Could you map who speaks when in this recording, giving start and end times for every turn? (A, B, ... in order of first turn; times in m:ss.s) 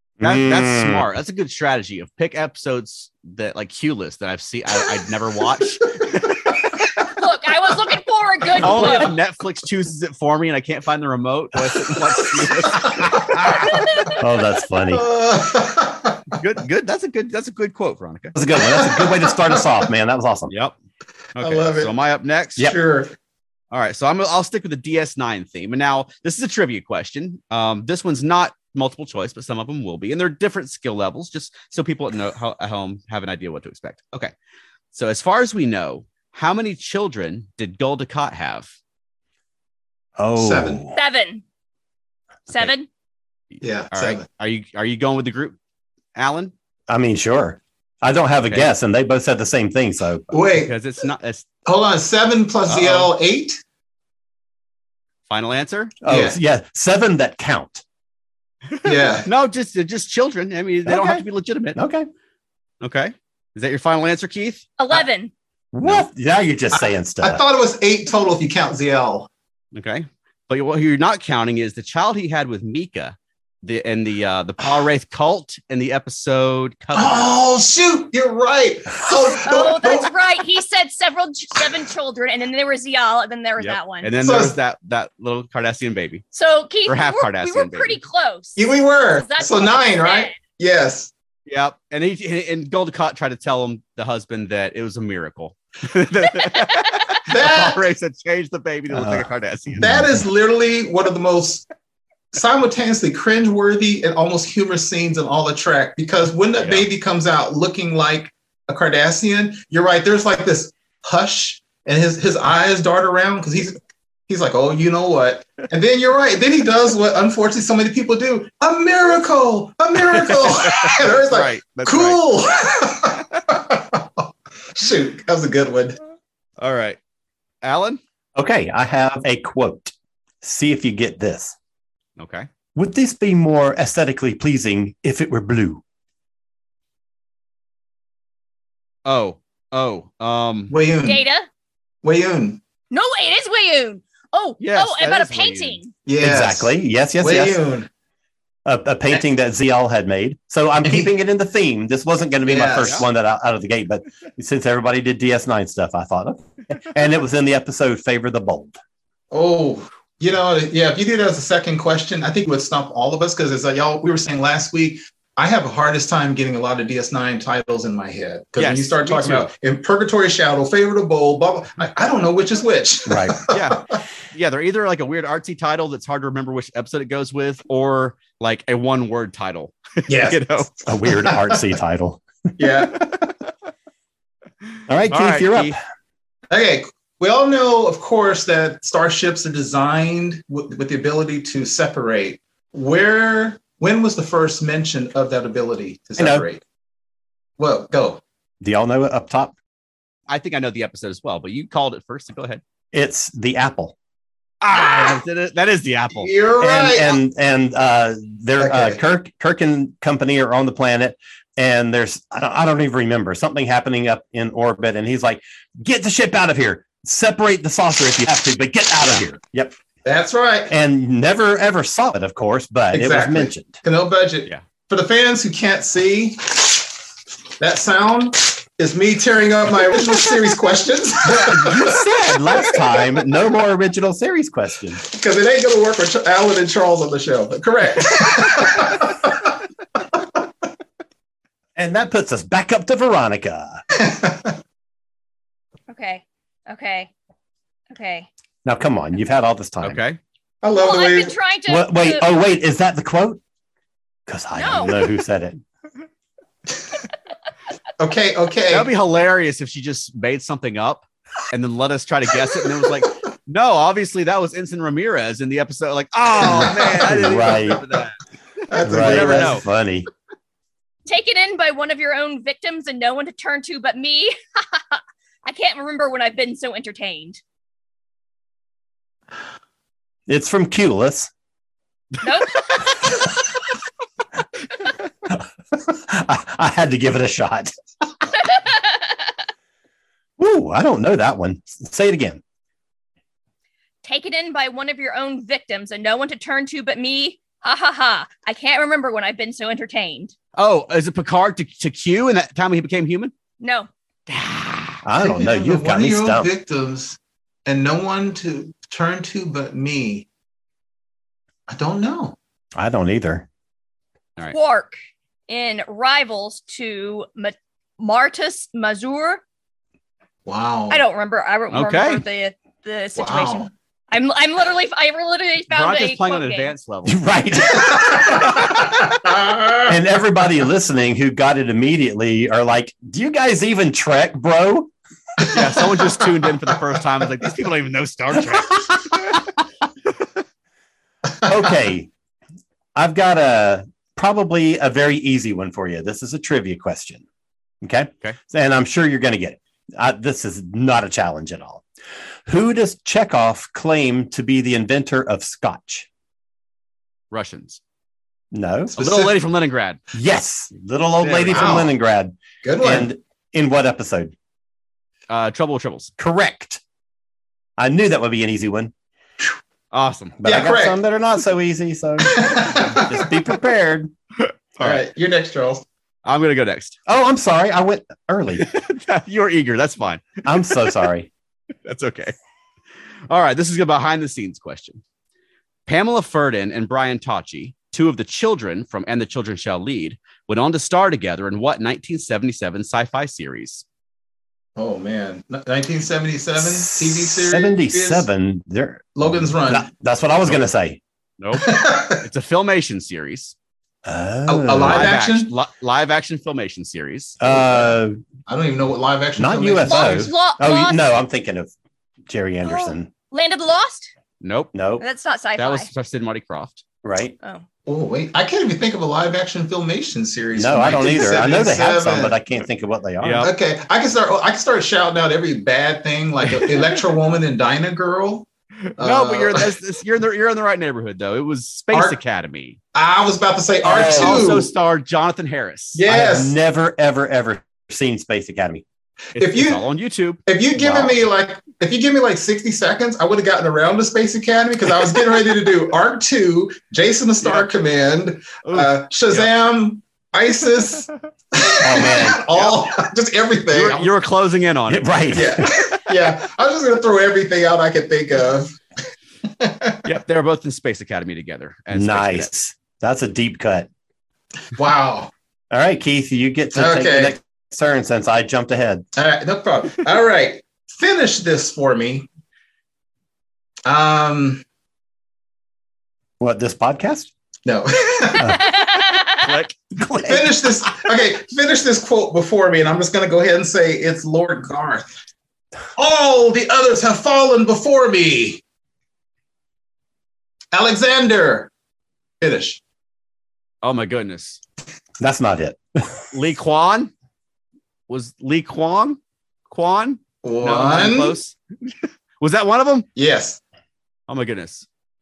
0:00.2-0:01.1 A
0:00.2-0:05.9 B
0:07.1-0:09.1 C
0:08.6-0:13.2 B
0:12.2-0:14.1 D
0:13.7-0:14.2 C
0:14.2-0:15.0 A
0:14.9-0:16.2 D
0:16.3-0:18.3 B
0:18.3-0:20.5 A
0:18.6-0:19.8 D
0:20.5-0:20.7 B
0:21.4-0:22.7 B
0:21.4-0:21.9 D
0:22.6-0:23.1 D
0:23.7-0:34.3 B
0:34.9-0:38.7 B
0:40.2-0:40.9 A
0:40.4-0:40.8 D
0:40.9-0:41.4 C
0:42.5-0:42.9 C
0:43.5-0:45.6 B
0:43.6-0:44.2 D
0:46.1-0:46.5 B
0:46.9-0:50.3 A
0:50.3-0:50.7 D
0:50.5-0:51.5 B
0:51.6-0:53.6 D
0:52.6-0:53.1 B
0:55.3-0:55.9 B
0:56.0-0:57.8 A
0:56.1-0:56.4 D
0:58.8-1:01.8 B
0:58.8-0:59.3 D
1:00.8-1:01.2 A
1:01.8-1:02.1 A
1:02.8-1:04.7 B
1:04.8-1:05.3 C
1:05.7-1:07.4 A
1:06.7-1:09.3 D
1:09.7-1:17.3 B
1:16.9-1:20.1 D
1:19.4-1:24.1 C
1:23.6-1:26.2 B
1:24.2-1:24.5 D
1:26.3-1:28.6 C
1:26.9-1:28.0 B
1:28.6-1:31.1 D
1:29.2-1:30.4 C
1:31.5-1:40.0 B
1:37.3-1:37.8 D
1:38.9-1:40.2 A
1:39.8-1:41.6 D
1:42.3-1:53.8 D
1:46.6-1:46.8 B
1:54.3-2:06.0 D
2:00.1-2:02.2 B
2:06.6-2:07.0 B
2:07.6-2:08.0 B
2:08.4-2:11.5 A
2:12.2-2:12.5 B
2:12.7-2:15.8 A
2:19.0-2:20.7 B
2:20.7-2:21.2 D
2:21.0-2:21.5 C
2:22.0-2:22.6 D
2:22.9-2:25.9 C
2:24.6-2:25.8 B
2:26.0-2:27.9 D
2:26.2-2:27.6 A
2:28.6-2:38.8 A
2:32.5-2:33.1 D
2:39.3-2:53.6 D
2:48.6-2:49.5 B
2:53.1-2:53.4 A
2:53.5-3:00.7 B
3:00.1-3:00.6 D
3:00.8-3:02.2 A
3:01.2-3:01.5 D
3:02.6-3:03.0 D
3:04.9-3:05.8 A
3:05.1-3:05.8 B
3:06.5-3:16.6 D
3:16.2-3:16.4 A
3:17.6-3:18.2 D
3:18.6-3:19.5 A
3:20.3-3:22.6 B
3:22.9-3:23.9 A
3:24.6-3:26.3 B
3:26.1-3:27.2 D
3:26.6-3:39.7 A
3:28.6-3:29.0 D
3:40.0-3:40.7 D
3:40.7-3:43.8 A
3:42.9-3:46.9 D
3:47.6-3:52.0 D
3:51.4-3:55.0 A
3:55.0-3:59.6 D
4:01.8-4:03.8 A
4:03.9-4:04.5 D
4:05.9-4:07.1 C
4:07.9-4:08.3 C
4:08.6-4:10.0 A
4:09.8-4:10.2 B
4:10.6-4:11.3 D
4:10.8-4:12.2 C
4:11.7-4:13.4 A
4:14.3-4:15.6 A
4:14.6-4:15.1 C
4:18.0-4:18.9 D
4:18.7-4:28.2 B
4:26.4-4:27.2 D
4:27.0-4:27.8 A
4:28.7-4:29.6 D
4:28.7-4:29.6 B
4:28.8-4:30.1 A
4:31.0-4:37.4 C
4:40.3-4:41.3 A
4:42.2-4:43.3 C
4:45.3-4:47.7 A
4:48.4-4:49.3 C
4:50.4-4:52.4 A
4:54.0-5:00.3 C
5:00.6-5:03.3 B
5:03.6-5:03.9 C
5:04.3-5:05.0 B
5:05.0-5:06.5 A
5:05.2-5:10.2 D
5:11.7-5:12.4 D
5:12.8-5:13.5 A
5:14.5-5:15.0 C
5:15.5-5:19.4 C
5:20.4-5:21.0 D
5:20.9-5:26.7 C
5:21.7-5:22.2 B
5:23.2-5:23.7 D
5:25.7-5:27.2 B
5:27.0-5:28.8 A
5:27.9-5:29.9 D
5:29.9-5:34.9 A
5:35.5-5:39.4 B
5:41.4-5:42.1 A
5:42.9-5:47.2 A
5:47.8-5:51.8 A
5:52.4-5:56.1 A
5:57.3-5:57.8 B
5:58.5-5:59.0 A
5:58.9-5:59.3 D
5:59.0-6:00.0 B
6:00.1-6:04.3 A
6:01.2-6:01.8 B
6:01.5-6:01.9 D
6:02.6-6:03.1 D
6:05.3-6:06.1 B
6:06.2-6:06.8 A
6:07.8-6:08.9 A
6:09.9-6:10.4 B
6:10.4-6:14.1 A
6:10.4-6:11.0 D
6:12.2-6:13.2 D
6:14.4-6:15.0 B
6:14.8-6:15.8 D
6:16.2-6:17.0 B
6:17.1-6:18.6 A
6:18.6-6:20.9 B
6:20.4-6:21.3 A
6:21.8-6:22.3 B
6:23.3-6:25.0 B
6:25.9-6:33.8 B
6:34.8-6:38.2 D
6:36.6-6:41.0 A
6:39.1-6:39.9 D
6:41.4-6:43.5 B
6:41.6-6:42.2 D
6:44.0-6:45.2 A
6:44.5-6:45.5 D
6:44.8-6:47.4 B
6:47.4-6:48.2 A
6:47.4-6:47.9 D
6:48.5-6:50.3 D
6:49.4-6:51.7 A
6:49.9-6:51.1 C
6:52.3-6:53.1 A
6:52.6-6:54.1 C
6:54.4-6:54.7 B
6:54.7-6:55.0 A
6:55.0-6:55.9 C
6:55.6-6:56.8 B
6:57.0-6:57.3 A
6:57.8-7:02.3 D
7:00.5-7:03.5 A
7:03.2-7:03.5 B
7:03.4-7:08.5 D
7:08.8-7:12.8 B
7:09.0-7:09.7 D
7:11.9-7:12.2 D
7:12.9-7:14.7 D
7:13.8-7:14.6 A
7:13.8-7:16.0 B
7:15.9-7:16.5 D
7:16.1-7:18.8 A
7:19.3-7:21.2 B
7:19.4-7:19.8 D
7:20.4-7:34.1 D
7:27.4-7:27.7 B
7:28.6-7:29.5 B
7:31.8-7:32.4 A
7:32.5-7:32.9 B
7:33.7-7:35.4 B
7:34.9-7:35.7 A
7:35.3-7:38.8 D
7:39.6-7:40.0 D
7:40.0-7:42.5 B
7:41.9-7:43.9 A
7:44.7-7:45.3 D
7:45.7-7:49.0 A
7:46.7-7:47.3 D
7:49.1-7:52.3 D
7:53.8-7:54.6 D
7:56.4-7:57.3 A
7:57.6-7:58.7 D
7:58.6-7:59.4 C
7:59.4-8:00.4 B
8:00.0-8:00.5 A
8:00.2-8:05.1 D
8:06.0-8:08.6 D
8:10.7-8:11.7 D
8:12.4-8:12.8 D
8:13.8-8:14.6 B
8:15.2-8:16.2 A
8:16.3-8:17.1 B
8:18.1-8:23.1 B
8:20.4-8:21.4 D
8:23.1-8:23.6 D
8:24.3-8:24.8 B